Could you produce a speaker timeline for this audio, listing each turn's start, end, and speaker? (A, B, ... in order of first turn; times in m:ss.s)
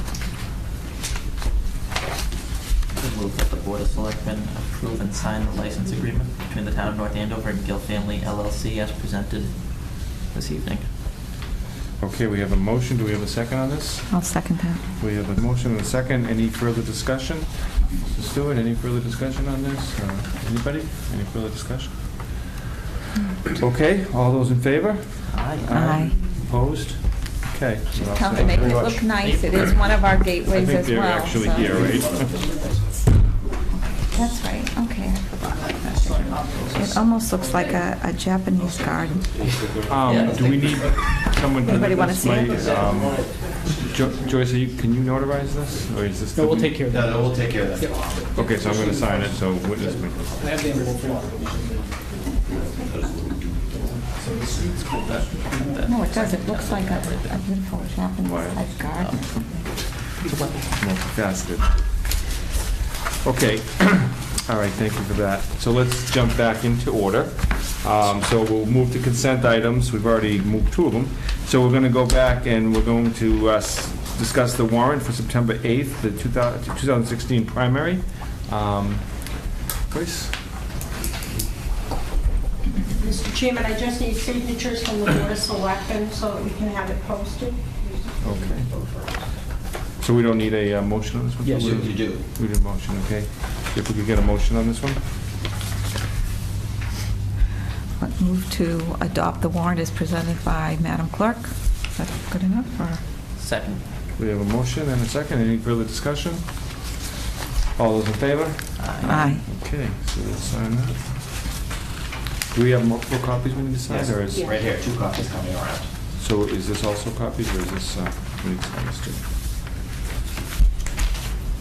0:03.0-0:10.9 A
0:12.0-0:14.3 B
0:14.1-0:14.8 C
0:15.0-0:22.3 B
0:23.5-0:29.8 B
0:25.3-0:25.9 A
0:25.7-0:26.2 C
0:28.0-0:31.8 C
0:30.4-0:32.4 B
0:31.8-0:32.6 D
0:33.8-0:39.3 C
0:36.2-0:37.0 E
0:38.6-0:40.9 D
0:39.8-0:46.8 B
0:40.0-0:40.4 A
0:40.1-0:40.4 C
0:41.6-0:42.6 C
0:42.5-0:43.8 D
0:46.3-0:49.2 E
0:46.9-0:49.3 D
0:48.3-0:50.4 B
0:49.7-0:52.6 E
0:50.2-0:51.3 D
0:52.6-0:53.5 D
0:53.6-0:55.8 E
0:54.8-0:57.4 A
0:55.8-0:59.7 C
0:58.2-0:58.8 B
0:58.9-1:00.7 A
1:00.7-1:02.0 B
1:03.2-1:19.3 B
1:19.9-1:20.4 B
1:23.0-1:29.0 F
1:28.2-1:28.7 B
1:30.0-1:35.0 B
1:31.4-1:32.2 D
1:38.0-1:43.0 C
1:43.4-1:43.8 A
1:44.2-1:46.5 B
1:47.8-1:51.1 B
1:48.8-1:49.3 A
1:49.0-1:49.4 C
1:52.5-1:54.5 B
1:53.9-1:55.9 D
1:56.2-1:59.2 B